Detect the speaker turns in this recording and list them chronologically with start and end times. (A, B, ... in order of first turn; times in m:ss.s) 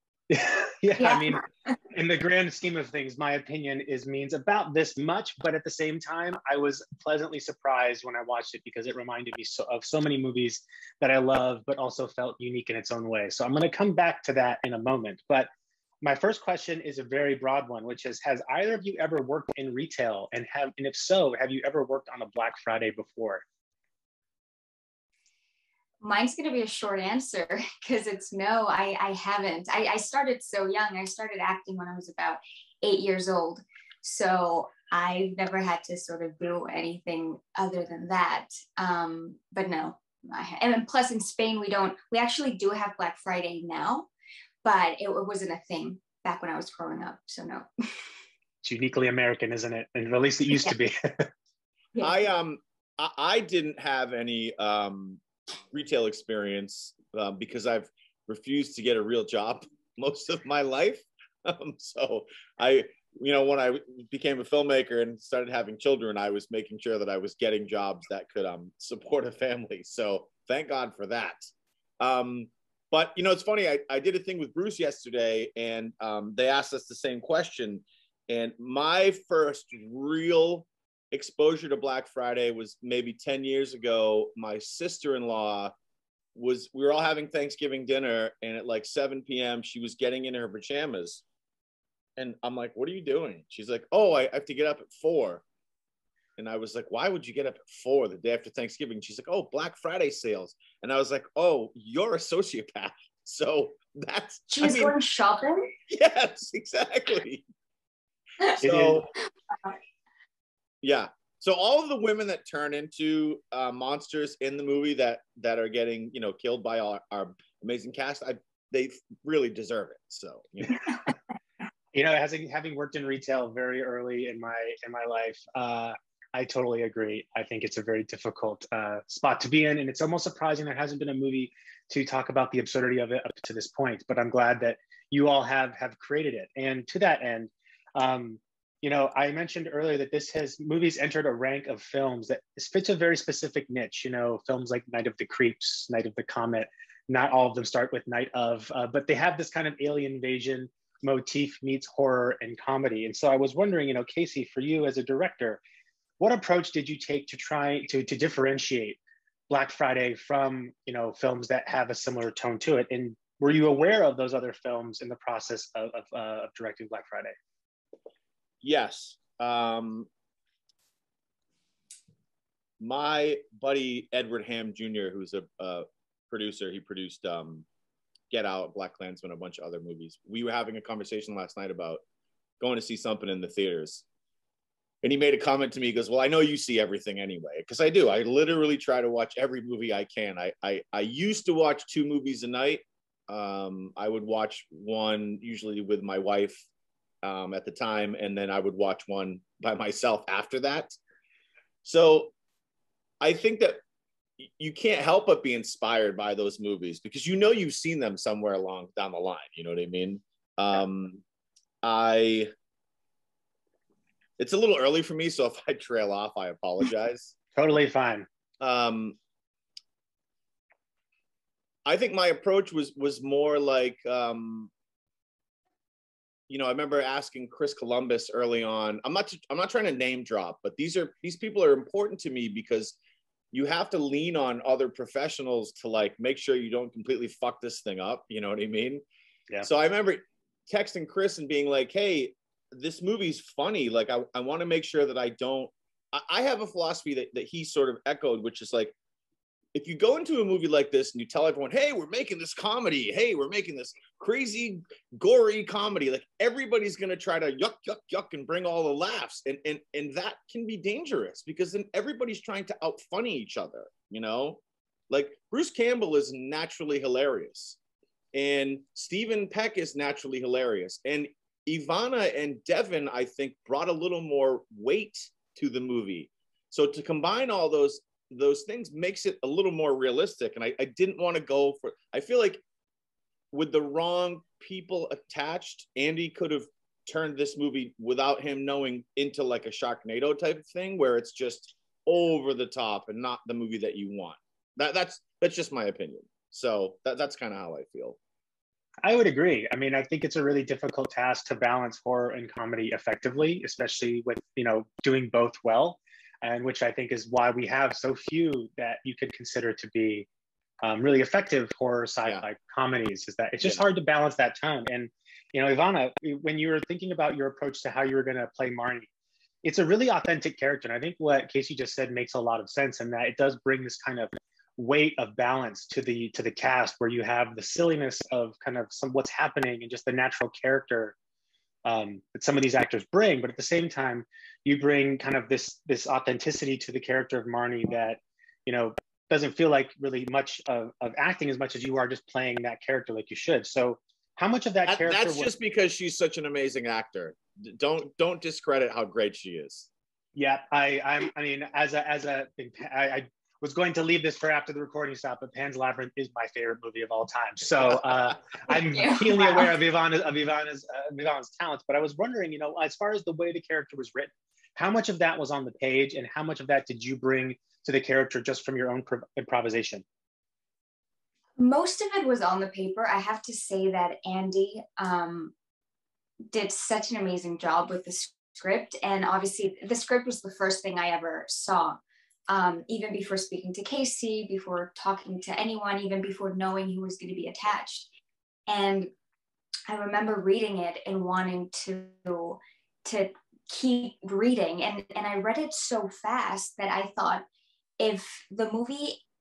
0:00.3-0:15.5 A
0:01.0-0:01.4 B
0:16.0-0:23.4 A
0:26.0-0:44.1 B
0:44.6-0:47.7 B
0:48.6-0:51.3 A
0:52.0-1:11.5 C
1:12.0-1:25.7 C
1:26.4-1:31.2 C
1:32.2-1:35.4 C
1:36.4-1:44.9 C
1:44.5-1:45.7 B
1:45.9-1:47.4 C
1:48.6-1:49.0 A
1:48.6-1:49.1 C
1:50.8-2:00.9 C
2:01.9-2:35.6 A
2:36.2-2:47.4 A
2:48.6-2:50.1 C
2:52.8-2:57.7 C
2:58.3-3:02.0 C
3:02.6-3:04.0 C
3:05.0-3:16.6 C
3:17.2-3:21.0 C
3:21.8-3:22.3 C
3:23.2-3:23.8 C
3:24.4-3:31.2 C
3:31.8-3:32.5 C
3:34.4-3:37.3 C
3:37.6-3:38.3 A
3:38.6-3:39.2 C
3:41.9-3:44.7 C
3:46.5-3:53.0 C
3:53.5-3:59.0 C
3:59.6-4:08.9 C
4:09.7-4:27.8 C
4:28.3-4:42.6 C
4:43.5-4:58.2 C
4:59.0-5:10.3 A
5:10.8-5:19.1 A
5:19.6-5:31.2 A
5:31.9-5:45.5 A
5:44.9-5:49.9 C
5:50.4-6:10.0 A
5:58.7-5:59.7 B
6:11.6-6:15.5 B
6:16.5-6:28.1 B
6:28.7-6:29.1 B
6:29.9-6:37.4 B
6:38.0-6:39.2 B